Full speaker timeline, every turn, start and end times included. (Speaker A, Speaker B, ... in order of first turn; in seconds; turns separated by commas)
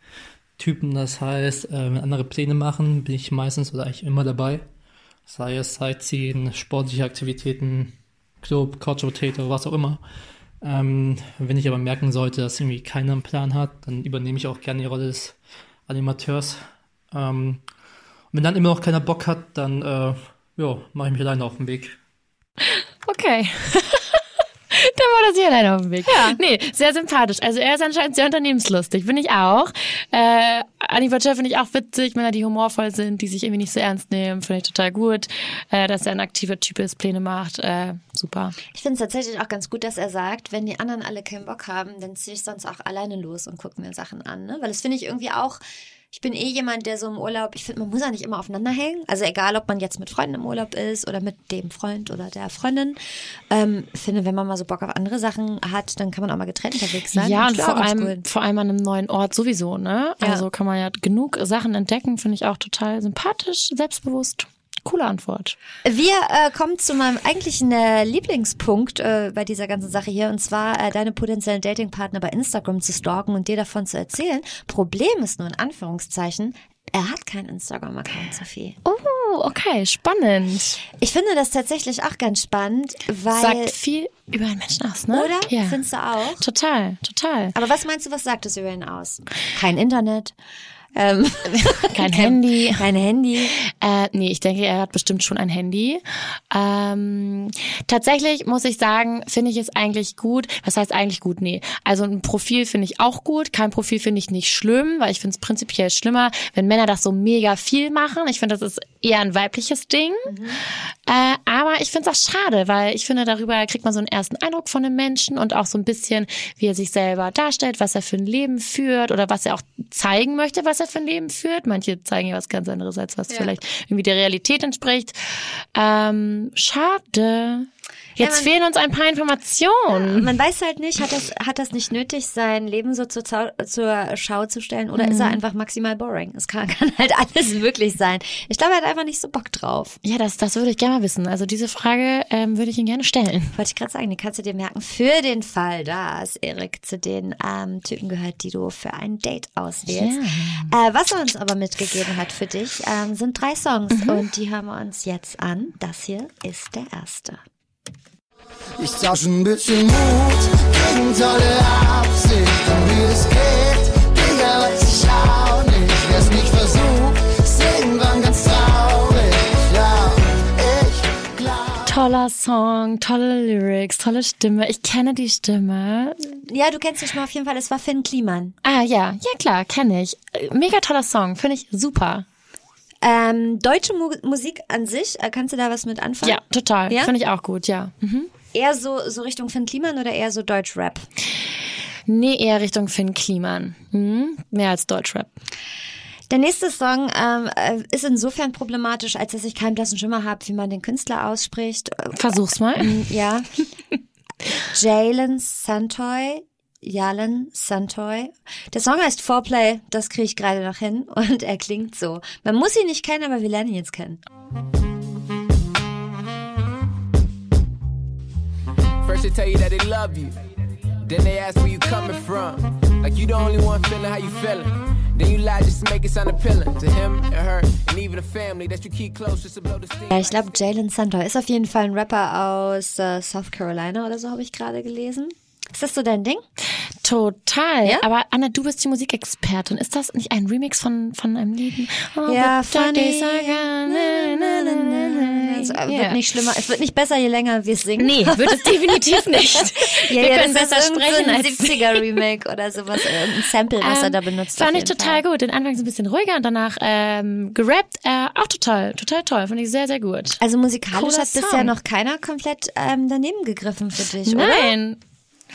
Speaker A: 0.6-4.7, Speaker A: 5.3-10.0, Speaker A: 10.6-15.3, Speaker A: 15.9-16.6, Speaker A: 17.1-17.6, Speaker A: 18.3-21.9, Speaker B: 22.6-24.2, Speaker B: 24.7-38.6, Speaker C: 26.1-26.4, Speaker C: 38.7-45.6, Speaker C: 46.1-53.0, Speaker C: 53.5-58.2, Speaker B: 57.1-65.6, Speaker C: 60.2-60.5, Speaker C: 65.8-78.8, Speaker B: 78.8-80.8, Speaker C: 80.9-83.8, Speaker B: 83.3-85.8, Speaker C: 85.1-86.5, Speaker B: 86.4-87.5, Speaker C: 87.5-90.3, Speaker C: 91.0-93.5, Speaker B: 91.9-92.9, Speaker B: 93.5-110.3, Speaker C: 110.3-110.6, Speaker B: 111.1-130.3, Speaker C: 128.2-128.5, Speaker C: 129.9-140.0, Speaker B: 135.0-135.4, Speaker B: 140.0-143.6, Speaker C: 143.6-157.4, Speaker B: 149.9-150.7, Speaker B: 153.9-154.2, Speaker D: 158.8-171.9, Speaker B: 171.8-176.4, Speaker C: 176.4-178.6, Speaker B: 178.6-182.2, Speaker C: 183.0-187.1, Speaker B: 186.2-188.3, Speaker C: 188.5-191.1, Speaker B: 192.1-195.3, Speaker C: 196.3-203.5, Speaker B: 202.2-203.0, Speaker C: 204.7-214.2, Speaker E: 219.0-220.5, Speaker E: 221.0-230.4, Speaker C: 230.1-236.4, Speaker B: 237.0-246.2, Speaker C: 242.2-255.2, Speaker B: 248.0-252.1, Speaker B: 253.8-260.4, Speaker C: 260.4-264.8, Speaker B: 260.9-261.7, Speaker B: 264.2-265.0